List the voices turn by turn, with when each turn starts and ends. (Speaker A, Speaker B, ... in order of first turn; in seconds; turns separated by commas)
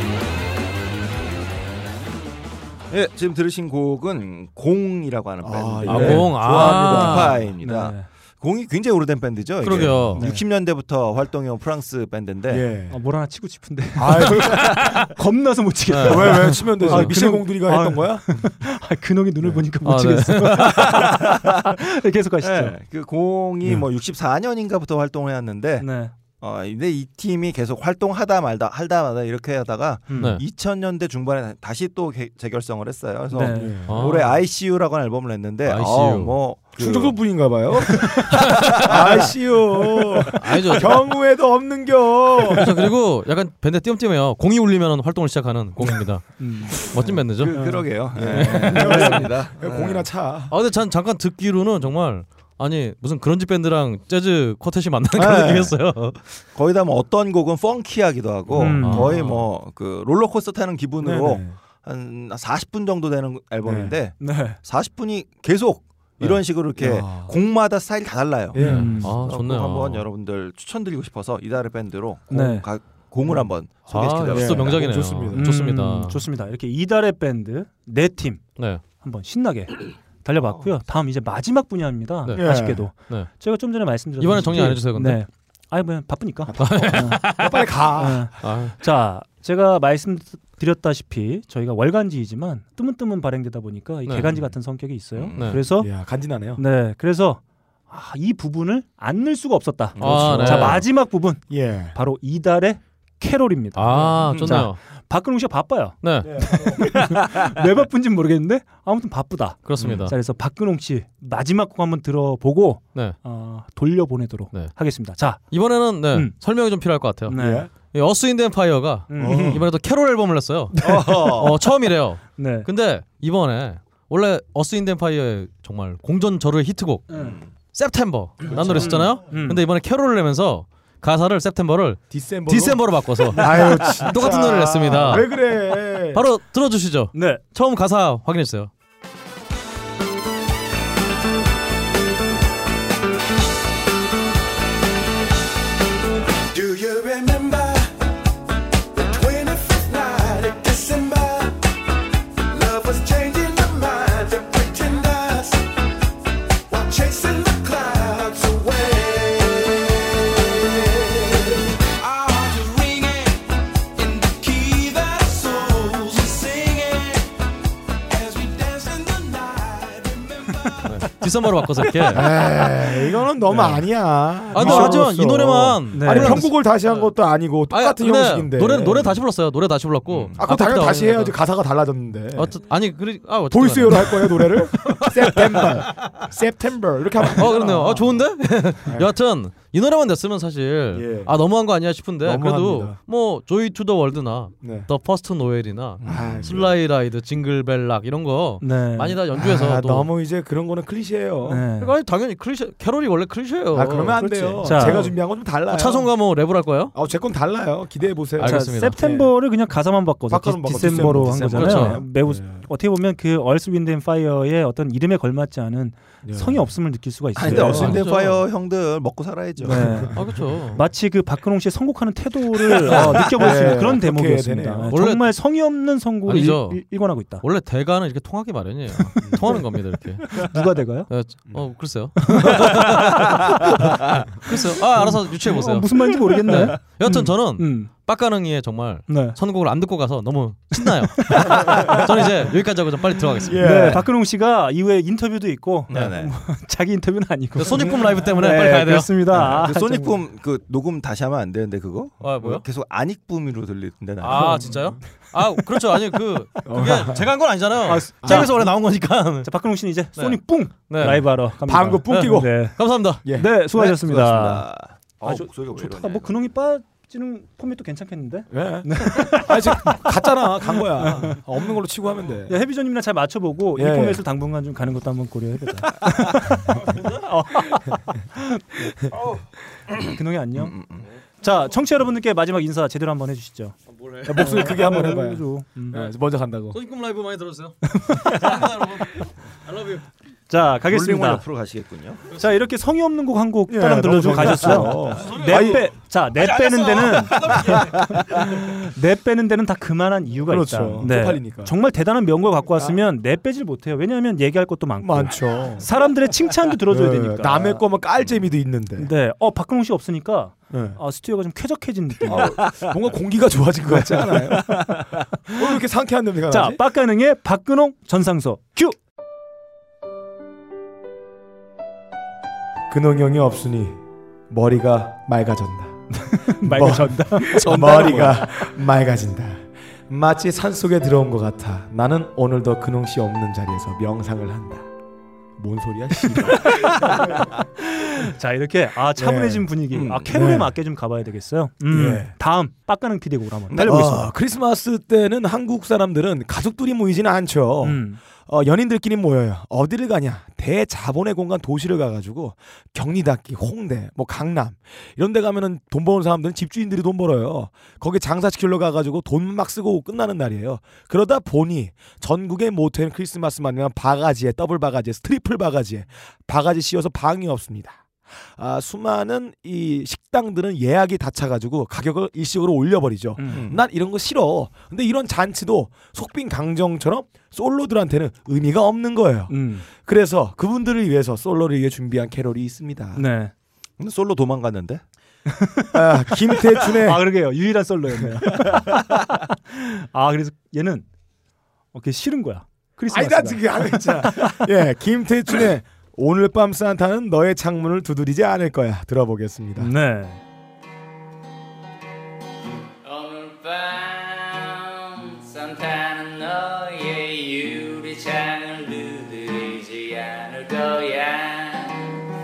Speaker A: 2.9-12.7, Speaker B: 5.4-7.4, Speaker C: 5.8-7.4, Speaker D: 7.6-8.1, Speaker C: 9.6-10.2, Speaker B: 10.0-10.4, Speaker B: 12.5-13.0, Speaker D: 12.9-22.8, Speaker B: 13.9-14.8, Speaker C: 14.6-15.1, Speaker C: 15.9-17.2, Speaker B: 16.0-18.4, Speaker C: 19.8-21.0, Speaker A: 21.0-21.5, Speaker A: 22.4-37.2, Speaker D: 25.8-26.1, Speaker D: 30.1-30.4, Speaker C: 30.2-30.4, Speaker D: 33.3-33.8, Speaker B: 33.4-34.1, Speaker C: 33.8-34.4, Speaker C: 35.6-36.4, Speaker B: 36.8-38.2, Speaker C: 38.4-38.8, Speaker B: 38.8-42.8, Speaker C: 40.4-41.0, Speaker C: 42.5-47.6, Speaker D: 46.4-46.9, Speaker A: 47.0-50.0, Speaker D: 47.5-49.3, Speaker B: 48.1-50.5, Speaker C: 48.1-49.0, Speaker C: 50.5-56.4, Speaker A: 55.2-55.7, Speaker B: 55.2-55.5, Speaker A: 56.5-75.0, Speaker D: 58.5-59.1, Speaker C: 58.6-59.5, Speaker B: 61.0-61.5, Speaker B: 63.6-64.0, Speaker D: 64.2-64.6, Speaker B: 66.2-67.3, Speaker B: 68.5-69.1, Speaker D: 68.6-69.1, Speaker C: 68.6-70.0, Speaker D: 72.3-72.7, Speaker C: 73.9-76.2, Speaker B: 74.2-75.5, Speaker D: 75.3-87.2, Speaker C: 78.6-78.8, Speaker C: 82.2-83.3, Speaker B: 82.3-82.9, Speaker C: 84.2-85.2, Speaker B: 86.5-88.3, Speaker C: 86.6-87.6, Speaker D: 88.0-95.9, Speaker C: 88.4-88.8, Speaker A: 95.1-95.6, Speaker B: 95.8-96.6, Speaker D: 96.5-115.5, Speaker A: 100.0-100.8, Speaker C: 100.0-100.8, Speaker B: 100.0-100.3, Speaker B: 101.5-101.9, Speaker C: 103.7-104.8, Speaker A: 104.2-104.6, Speaker C: 106.0-106.5, Speaker B: 106.2-106.9, Speaker C: 109.7-110.1, Speaker B: 109.8-110.0, Speaker C: 115.5-135.3, Speaker D: 116.0-116.3, Speaker D: 117.3-117.7, Speaker B: 117.3-117.7, Speaker D: 119.1-119.5, Speaker B: 119.2-119.7, Speaker A: 120.8-121.6, Speaker B: 120.8-121.5, Speaker D: 122.3-122.7, Speaker D: 127.1-127.4, Speaker A: 127.1-127.5, Speaker B: 128.4-129.1, Speaker D: 128.5-129.6, Speaker B: 132.1-136.2, Speaker C: 136.1-138.7, Speaker D: 137.1-137.4, Speaker E: 146.5-147.9, Speaker E: 148.9-151.6, Speaker E: 152.5-155.7, Speaker E: 156.7-163.4, Speaker E: 164.0-167.3, Speaker E: 168.1-171.1, Speaker C: 170.8-172.3, Speaker D: 171.9-172.1, Speaker B: 172.1-179.2, Speaker C: 173.5-173.8, Speaker C: 174.5-177.1, Speaker D: 174.6-174.9, Speaker D: 175.9-176.5, Speaker C: 177.7-181.3, Speaker A: 180.1-180.4, Speaker B: 180.4-182.6, Speaker C: 182.3-185.7, Speaker B: 183.5-188.2, Speaker C: 187.3-200.1, Speaker B: 188.8-189.1, Speaker B: 190.9-191.3, Speaker B: 192.2-193.0, Speaker B: 194.6-194.9, Speaker A: 196.0-196.5, Speaker B: 196.0-196.8, Speaker D: 198.6-199.2, Speaker B: 199.3-201.7, Speaker D: 201.5-201.9, Speaker C: 201.8-205.1, Speaker B: 203.7-206.1, Speaker D: 204.6-205.1, Speaker C: 205.7-206.9, Speaker B: 206.9-209.3, Speaker C: 208.4-209.0, Speaker D: 208.4-218.0, Speaker B: 210.3-212.7, Speaker C: 211.0-212.0, Speaker B: 216.2-216.6, Speaker A: 217.3-220.1, Speaker B: 217.4-218.0, Speaker C: 217.6-218.4, Speaker B: 219.6-220.8, Speaker D: 219.6-220.1, Speaker C: 220.1-220.8, Speaker D: 220.7-227.4, Speaker C: 222.9-223.3, Speaker B: 223.3-225.0, Speaker C: 224.9-225.4, Speaker C: 226.2-230.5, Speaker D: 229.2-229.6, Speaker B: 229.2-229.5, Speaker D: 230.3-231.1, Speaker C: 231.1-243.8, Speaker D: 232.2-233.8, Speaker D: 235.0-237.9, Speaker D: 239.1-239.4, Speaker D: 240.7-242.0, Speaker B: 243.4-244.1, Speaker D: 243.6-250.0, Speaker A: 245.9-246.3, Speaker C: 247.6-249.2, Speaker B: 249.4-250.1, Speaker A: 249.4-254.8, Speaker C: 252.2-252.6, Speaker C: 254.2-259.5, Speaker D: 254.3-254.7, Speaker B: 256.6-257.3, Speaker D: 257.8-258.6, Speaker B: 258.2-258.6, Speaker D: 259.4-264.6, Speaker C: 260.1-261.3, Speaker B: 261.6-262.7, Speaker C: 262.1-263.2, Speaker B: 263.2-263.5, Speaker A: 263.7-266.3, Speaker D: 265.2-271.4, Speaker B: 268.5-272.6, Speaker D: 272.5-279.0, Speaker B: 273.8-274.2, Speaker D: 280.1-280.7, Speaker A: 280.6-281.1, Speaker D: 281.4-283.7, Speaker C: 283.9-284.6, Speaker B: 284.2-286.8, Speaker D: 284.4-286.0, Speaker C: 286.7-290.0, Speaker D: 287.9-288.6, Speaker D: 290.5-291.4, Speaker A: 290.8-292.2, Speaker D: 292.3-307.8, Speaker B: 293.7-295.9, Speaker C: 295.2-295.8, Speaker C: 296.4-298.1, Speaker B: 300.5-301.7, Speaker B: 305.0-305.9, Speaker B: 306.9-309.1, Speaker D: 309.0-312.6, Speaker B: 310.7-311.0, Speaker B: 312.2-316.8, Speaker A: 312.3-312.9, Speaker D: 316.5-318.9, Speaker B: 322.9-326.0, Speaker D: 326.1-328.4, Speaker B: 326.6-334.9, Speaker B: 335.6-337.6, Speaker D: 336.3-337.1, Speaker D: 337.8-344.3, Speaker B: 339.2-339.7, Speaker A: 339.9-340.2, Speaker B: 340.2-340.8, Speaker B: 341.9-342.3, Speaker B: 343.7-383.2, Speaker D: 347.8-348.2, Speaker D: 373.4-373.7, Speaker A: 373.5-373.8, Speaker D: 379.5-379.9, Speaker D: 383.1-383.5, Speaker A: 384.0-385.0, Speaker D: 385.5-391.0, Speaker B: 385.9-387.2, Speaker B: 388.2-388.8, Speaker D: 391.9-394.7, Speaker B: 393.1-399.9, Speaker D: 399.8-400.4, Speaker F: 403.0-412.2